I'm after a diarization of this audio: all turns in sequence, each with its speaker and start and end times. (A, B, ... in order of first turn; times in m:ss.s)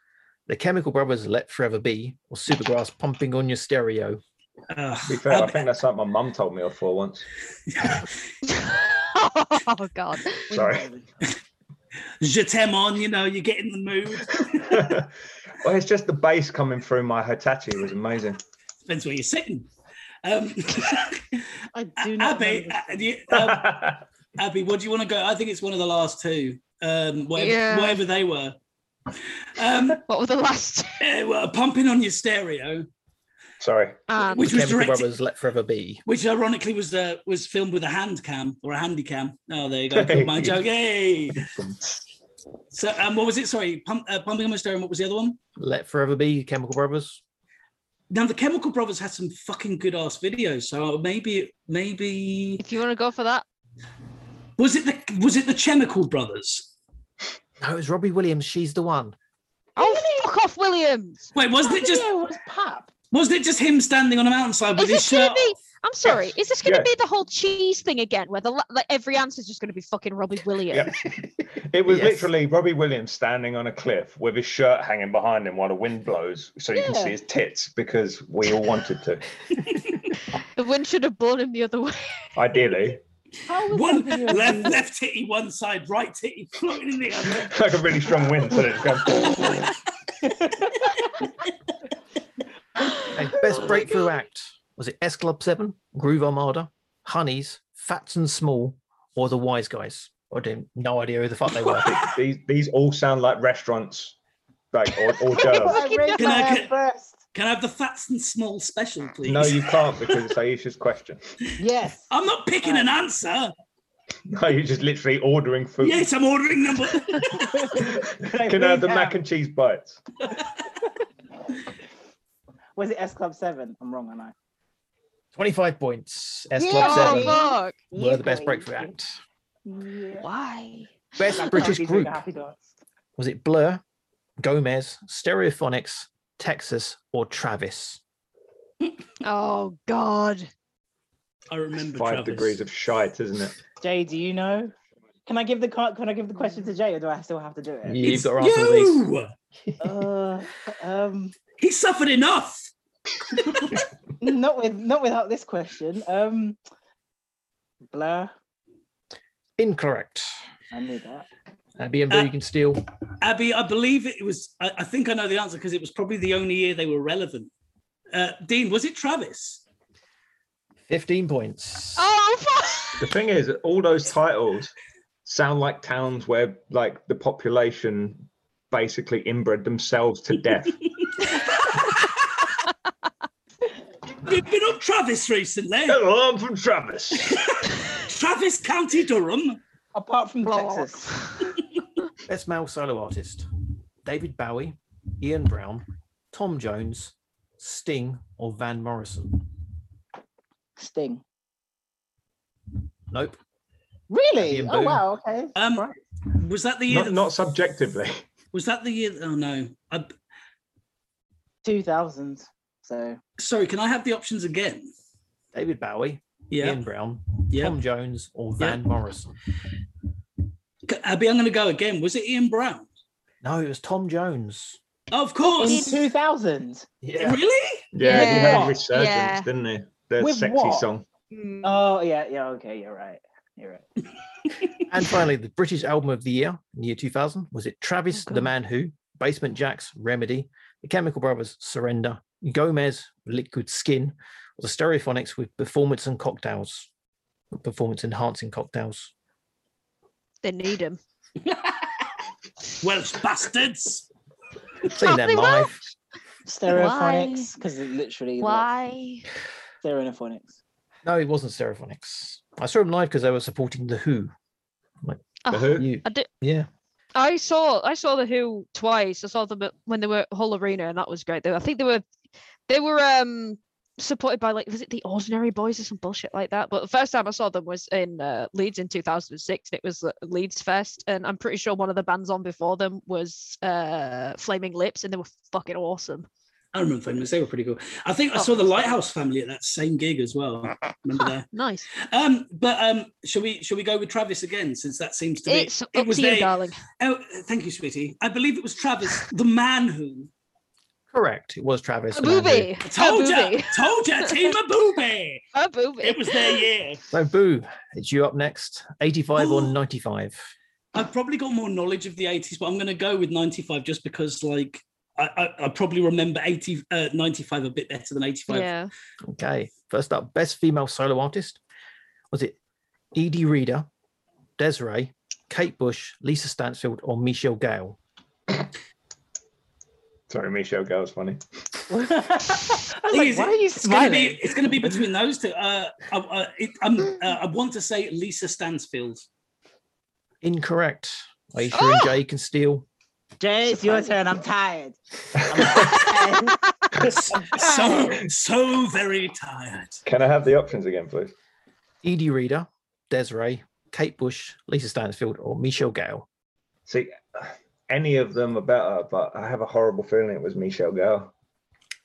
0:00.5-0:04.2 A
0:04.7-0:05.6 B
0:05.1-0:07.2 C
0:07.7-0:08.1 B
0:08.4-0:10.5 D
0:10.5-0:10.9 C
0:10.5-0:11.0 E
0:12.2-0:15.0 B
0:14.6-0:15.1 C
0:15.6-0:18.4 C
0:18.8-0:19.7 B
0:20.2-0:21.4 B
0:21.7-0:23.1 E
0:22.0-0:28.6 B
0:23.3-0:24.0 C
0:27.4-0:28.0 D
0:29.5-0:30.0 B
0:30.0-0:31.0 D
0:31.0-0:32.9 B
0:33.6-0:34.0 C
0:34.1-0:34.5 D
0:34.3-0:35.1 B
0:34.4-0:36.0 A
0:36.0-0:41.5 B
0:39.9-0:40.6 C
0:41.3-0:42.0 C
0:42.7-0:45.4 B
0:45.6-0:47.2 A
0:48.1-0:52.6 B
0:52.6-0:53.4 D
0:54.6-0:56.7 B
0:57.6-0:59.1 A
0:59.8-1:01.3 D
0:59.8-1:00.3 E
1:01.3-1:02.1 B
1:01.6-1:02.9 E
1:03.1-1:05.5 B
1:04.8-1:10.9 D
1:06.0-1:06.9 C
1:10.7-1:19.3 C
1:11.9-1:12.3 A
1:16.7-1:17.2 E
1:20.6-1:22.2 D
1:22.4-1:23.0 C
1:23.4-1:24.8 E
1:23.7-1:27.5 B
1:27.4-1:29.7 C
1:32.8-1:33.6 E
1:33.1-1:41.9 A
1:41.7-1:44.2 C
1:44.7-1:45.8 C
1:45.3-1:46.5 D
1:45.4-1:47.2 E
1:46.2-1:46.7 B
1:47.3-1:50.2 B
1:49.2-1:51.2 C
1:51.6-1:52.1 E
1:52.1-1:53.5 B
1:52.6-1:52.9 E
1:54.3-1:56.1 C
1:55.8-1:57.7 B
1:57.3-1:59.2 E
1:57.8-2:00.0 C
2:02.8-2:04.3 E
2:05.3-2:07.4 A
2:06.6-2:08.9 E
2:06.8-2:07.8 D
2:07.9-2:09.1 A
2:09.6-2:10.3 E
2:10.2-2:11.4 D
2:11.2-2:12.2 A
2:11.3-2:12.7 E
2:13.2-2:13.8 A
2:14.4-2:18.0 A
2:19.2-2:20.5 D
2:21.5-2:22.6 B
2:21.9-2:23.6 C
2:23.8-2:24.7 E
2:25.2-2:28.2 E
2:27.8-2:29.0 A
2:28.0-2:29.3 B
2:29.8-2:31.4 E
2:31.6-2:32.7 B
2:33.2-2:33.8 B
2:34.2-2:36.6 E
2:37.9-2:38.3 E
2:39.6-2:40.3 A
2:40.7-2:41.3 E
2:41.8-2:42.8 A
2:43.2-2:47.5 B
2:48.1-2:49.6 B
2:50.9-2:52.0 A
2:52.0-2:53.0 D
2:53.0-2:54.7 C
2:55.2-3:00.8 C
3:04.2-3:06.0 B
3:05.9-3:07.5 C
3:07.2-3:09.6 B
3:09.9-3:11.1 E
3:10.4-3:11.5 D
3:12.3-3:13.4 A
3:14.0-3:19.4 A
3:20.8-3:21.2 E
3:23.1-3:23.4 A
3:24.1-3:26.0 E
3:24.4-3:25.0 A
3:25.6-3:27.3 B
3:26.9-3:28.2 C
3:28.5-3:30.1 B
3:31.6-3:33.2 E
3:33.4-3:34.9 B
3:35.5-3:39.3 A
3:36.5-3:36.8 B
3:37.5-3:37.8 B
3:40.9-3:42.9 B
3:43.4-3:44.8 A
3:45.1-3:46.1 B
3:45.6-3:46.9 E
3:45.6-3:46.0 D
3:47.0-3:47.4 A
3:47.2-3:47.9 B
3:47.9-3:51.0 C
3:48.0-3:49.5 D
3:48.0-3:48.8 E
3:50.2-3:50.9 E
3:51.3-3:51.8 D
3:51.6-3:53.8 E
3:54.9-4:06.9 A
3:58.1-3:58.5 D
4:07.5-4:09.1 A
4:10.4-4:11.0 D
4:11.5-4:11.9 B
4:12.8-4:14.1 B
4:14.9-4:15.7 D
4:14.9-4:15.9 A
4:16.4-4:18.7 E
4:16.7-4:17.5 D
4:18.4-4:19.2 D
4:19.8-4:20.6 E
4:21.0-4:24.3 A
4:25.0-4:26.7 A
4:25.4-4:26.3 D
4:25.5-4:25.9 C
4:27.1-4:32.0 D
4:32.7-4:46.3 D
4:46.7-4:51.5 B
4:48.3-4:48.7 D
4:51.5-4:51.9 D
4:52.1-5:00.3 B
4:55.5-4:56.8 D
5:01.1-5:02.7 A
5:02.1-5:04.5 D
5:02.8-5:05.4 B
5:05.5-5:06.6 D
5:06.0-5:07.0 B
5:07.1-5:10.5 A
5:09.4-5:09.7 B
5:10.9-5:18.7 B
5:18.5-5:18.9 D
5:19.2-5:21.6 A
5:22.3-5:22.6 A
5:23.1-5:23.9 A
5:24.6-5:28.0 A
5:30.3-5:31.4 C
5:31.9-5:35.0 E
5:33.1-5:39.3 B
5:40.4-5:42.8 A
5:41.7-5:42.1 D
5:43.4-5:46.8 E
5:45.3-5:46.0 C
5:45.8-5:46.3 B
5:47.0-5:50.0 B
5:47.3-5:48.2 E
5:50.0-5:51.3 C
5:52.0-5:56.2 A
5:56.9-6:01.3 C